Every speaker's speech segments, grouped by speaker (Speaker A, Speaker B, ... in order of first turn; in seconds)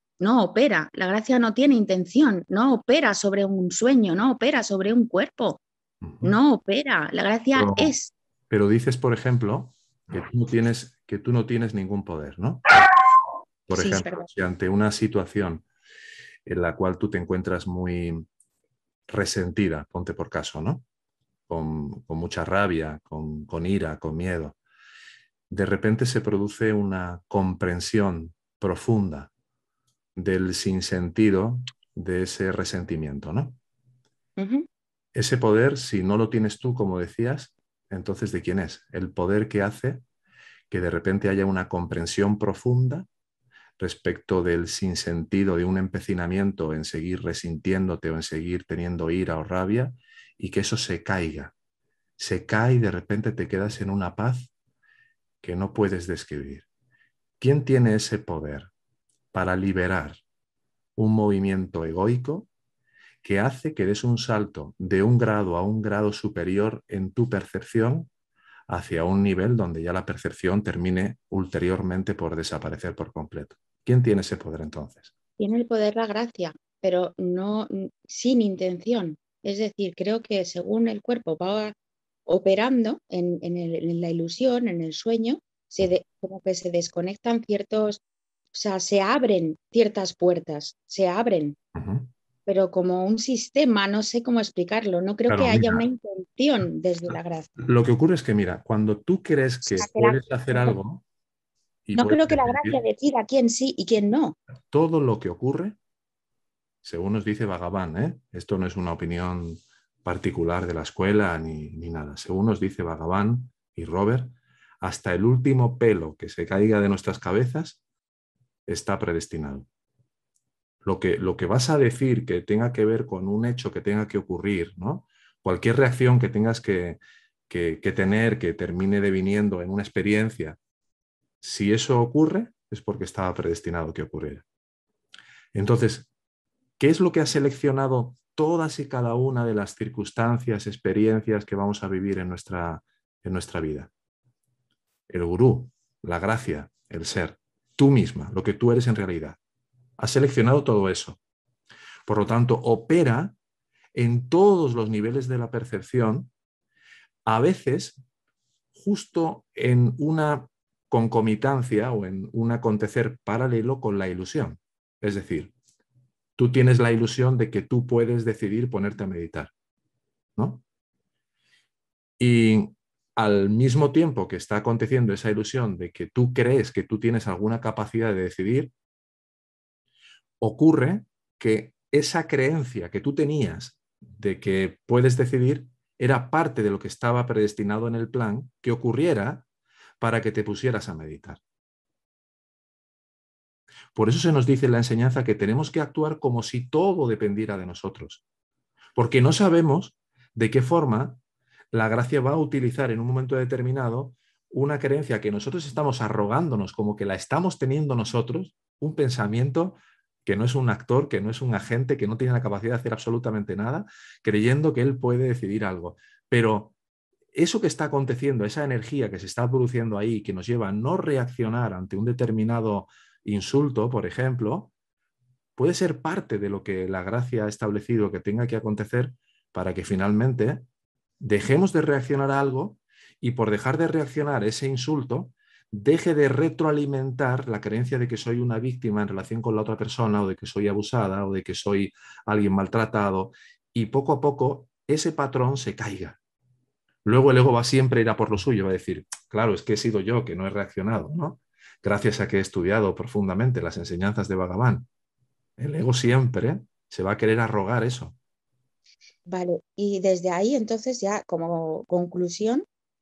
Speaker A: 0.2-5.6, 6.2-8.1, 13.7-14.3, 34.4-34.6, 75.4-81.7, 82.2-88.0, 88.5-91.6, 92.5-97.5, 99.6-100.8, 101.9-104.4, 259.3-262.6
Speaker B: 6.0-6.3, 7.5-7.9, 8.5-12.6, 13.7-15.6, 16.4-18.2, 19.1-20.8, 21.5-24.6, 25.5-29.3, 30.1-33.6, 35.1-40.0, 40.7-43.1, 43.8-51.5, 52.2-54.5, 55.4-56.6, 57.4-58.7, 59.3-60.2, 61.0-62.5, 63.2-68.1, 68.7-75.1, 91.8-92.1, 95.3-95.8, 97.6-101.0, 101.9-102.8, 104.7-105.8, 106.8-117.8, 118.7-119.7, 120.8-130.6, 131.4-134.4, 135.5-136.1, 136.8-143.9, 145.1-149.4, 150.0-151.2, 152.1-153.4, 153.9-156.3, 157.2-158.0, 158.8-165.5, 166.4-169.5, 170.4-170.6, 172.2-178.7, 180.4-189.4, 190.0-191.4, 193.9-198.2, 198.9-201.2, 201.7-216.7, 217.3-224.7, 225.6-230.6, 231.2-246.2, 247.0-254.9, 255.6-258.1